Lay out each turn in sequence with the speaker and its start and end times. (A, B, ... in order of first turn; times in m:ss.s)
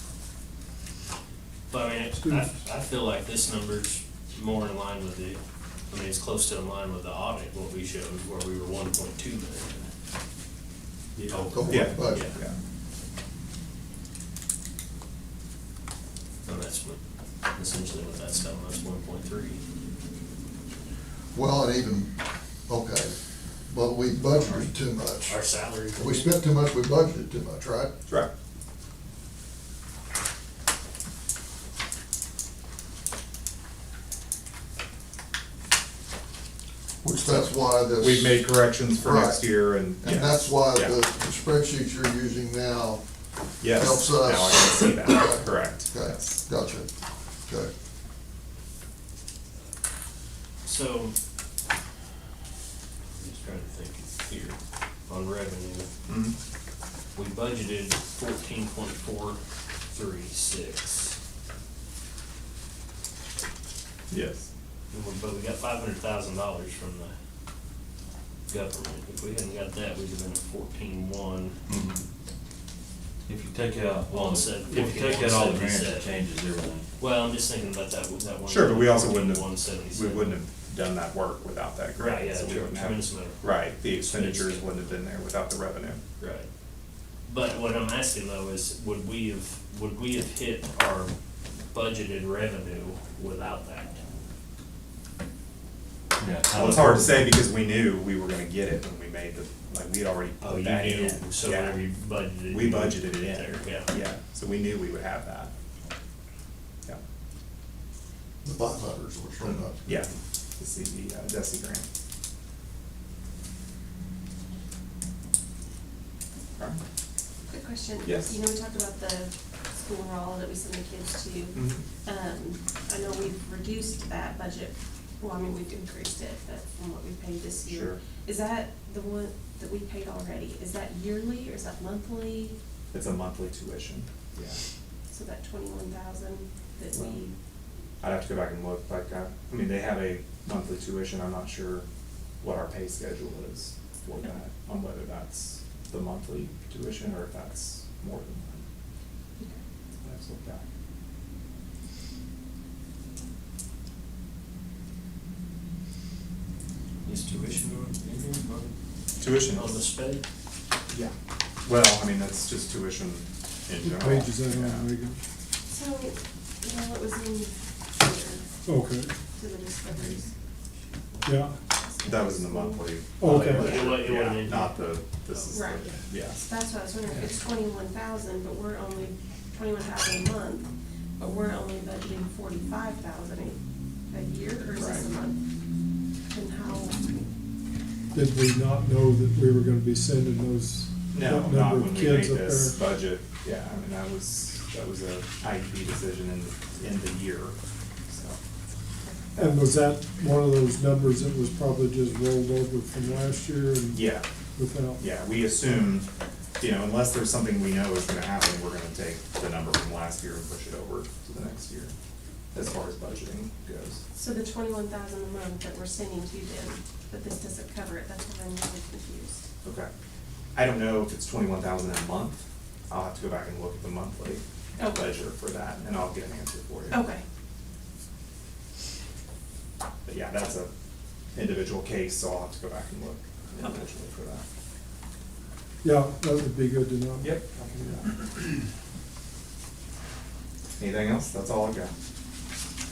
0:01.7-0:09.9 A
0:02.1-0:02.6 B
0:11.5-0:12.2 C
0:11.7-0:12.6 D
0:12.1-0:12.4 A
0:16.4-0:17.0 A
0:17.5-0:19.6 A
0:21.3-0:22.1 C
0:22.7-0:23.2 C
0:23.7-0:27.9 C
0:25.3-0:26.2 A
0:37.0-0:38.5 C
0:37.3-0:41.0 D
0:39.0-0:43.0 C
0:43.6-0:46.4 D
0:43.7-0:46.9 C
0:50.6-0:51.2 A
0:53.1-0:55.9 A
0:56.1-0:56.4 D
0:57.2-1:01.2 A
1:04.1-1:04.5 D
1:04.9-1:07.2 A
1:08.5-1:11.6 A
1:11.7-1:12.0 E
1:13.3-1:16.9 E
1:14.1-1:16.1 A
1:17.0-1:20.3 A
1:18.4-1:26.0 D
1:22.0-1:23.4 A
1:24.0-1:24.7 A
1:26.2-1:26.5 A
1:27.2-1:31.2 A
1:31.7-1:34.0 A
1:36.2-1:37.3 E
1:36.5-1:41.8 D
1:40.4-1:43.9 A
1:42.5-1:45.5 D
1:48.4-1:49.8 C
1:49.8-1:51.8 D
1:57.5-2:12.6 F
1:58.0-1:58.4 D
2:01.6-2:01.9 D
2:07.7-2:08.0 D
2:12.9-2:14.6 D
2:15.1-2:17.4 F
2:18.0-2:21.8 D
2:22.4-2:28.6 D
2:30.0-2:30.7 D
2:37.0-2:38.8 A
2:39.2-2:39.8 D
2:39.6-2:40.2 A
2:40.9-2:41.1 D
2:41.6-2:44.9 D
2:43.8-2:45.2 B
2:45.7-2:48.5 F
2:48.7-2:49.1 B
2:49.4-2:50.3 F
2:51.3-2:51.6 B
2:51.6-2:54.3 F
2:52.0-2:56.5 D
2:53.2-2:53.8 B
2:53.7-2:54.7 A
2:55.5-3:03.6 F
3:04.1-3:05.4 F
3:04.7-3:05.1 D
3:06.3-3:07.0 F
3:08.1-3:12.8 B
3:11.1-3:17.6 D
3:18.1-3:18.4 D
3:19.4-3:25.0 B
3:23.9-3:24.3 D
3:25.0-3:26.1 D
3:26.6-3:31.9 D
3:32.5-3:34.0 D
3:34.1-3:39.4 F
3:39.6-3:39.9 D
3:40.6-3:47.0 D
3:44.8-3:45.1 F
3:46.9-3:47.2 F
3:50.0-3:50.7 D
3:51.4-3:54.4 D
3:55.8-3:57.4 B
3:57.2-3:58.3 D
4:00.8-4:01.9 D